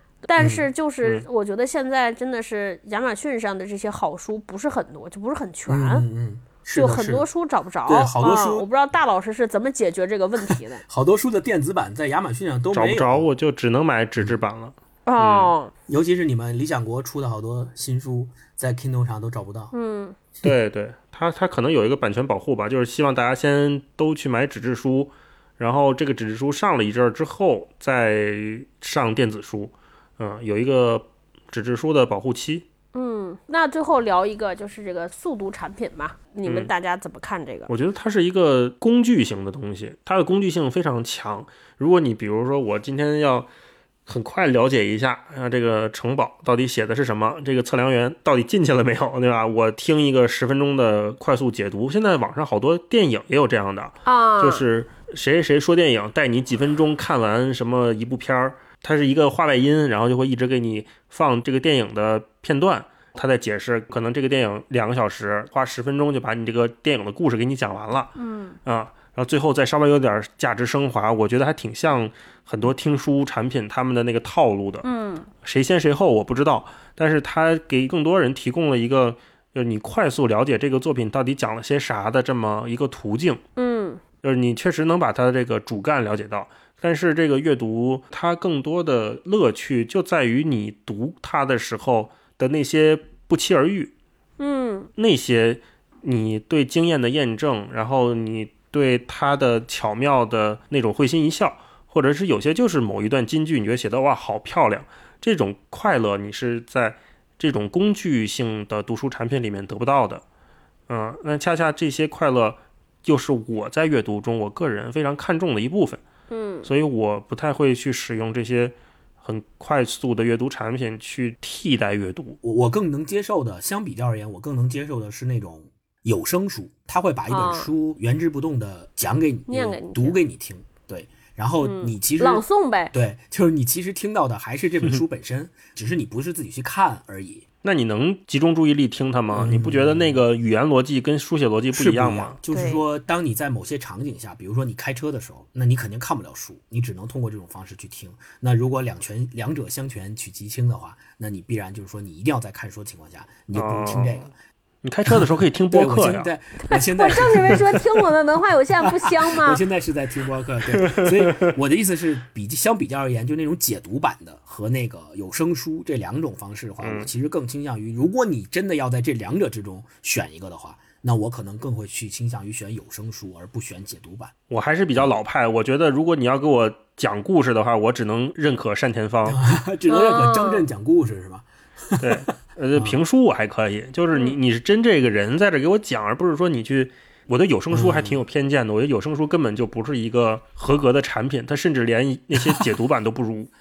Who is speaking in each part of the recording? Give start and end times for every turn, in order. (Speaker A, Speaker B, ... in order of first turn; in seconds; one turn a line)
Speaker A: 0.2-6.0
Speaker B: 5.7-7.2
Speaker A: 6.7-10.8
Speaker B: 7.8-8.7
Speaker B: 10.9-13.3
Speaker C: 12.7-15.5
Speaker A: 15.1-15.7
Speaker B: 15.9-19.7
Speaker A: 19.7-20.1
Speaker C: 20.4-32.6
Speaker A: 32.9-37.7
Speaker C: 36.5-36.7
Speaker C: 37.7-43.5
Speaker C: 44.0-74.8
Speaker A: 54.0-54.6
Speaker A: 68.2-68.6
Speaker A: 74.8-75.3
Speaker C: 75.4-83.4
Speaker A: 83.6-84.0
Speaker C: 84.2-93.9
Speaker A: 94.4-94.9
Speaker C: 95.0-110.2
Speaker C: 110.9-116.0
Speaker A: 116.3-116.7
Speaker C: 116.6-122.4
Speaker B: 122.4-137.4
Speaker A: 127.3-127.7
Speaker A: 129.5-130.2
Speaker A: 131.6-132.9
Speaker C: 137.6-142.4
Speaker B: 139.3-140.2
Speaker B: 141.7-154.3
Speaker A: 142.5-142.8
Speaker C: 153.5-154.3
Speaker C: 154.8-156.3
Speaker B: 155.1-157.8
Speaker A: 156.6-159.6
Speaker B: 158.8-174.3
Speaker C: 160.7-161.5
Speaker C: 166.8-167.1
Speaker C: 174.5-179.4
Speaker B: 179.2-182.2
Speaker A: 179.9-180.7
Speaker C: 182.0-193.5
Speaker B: 187.7-188.2
Speaker B: 192.3-192.7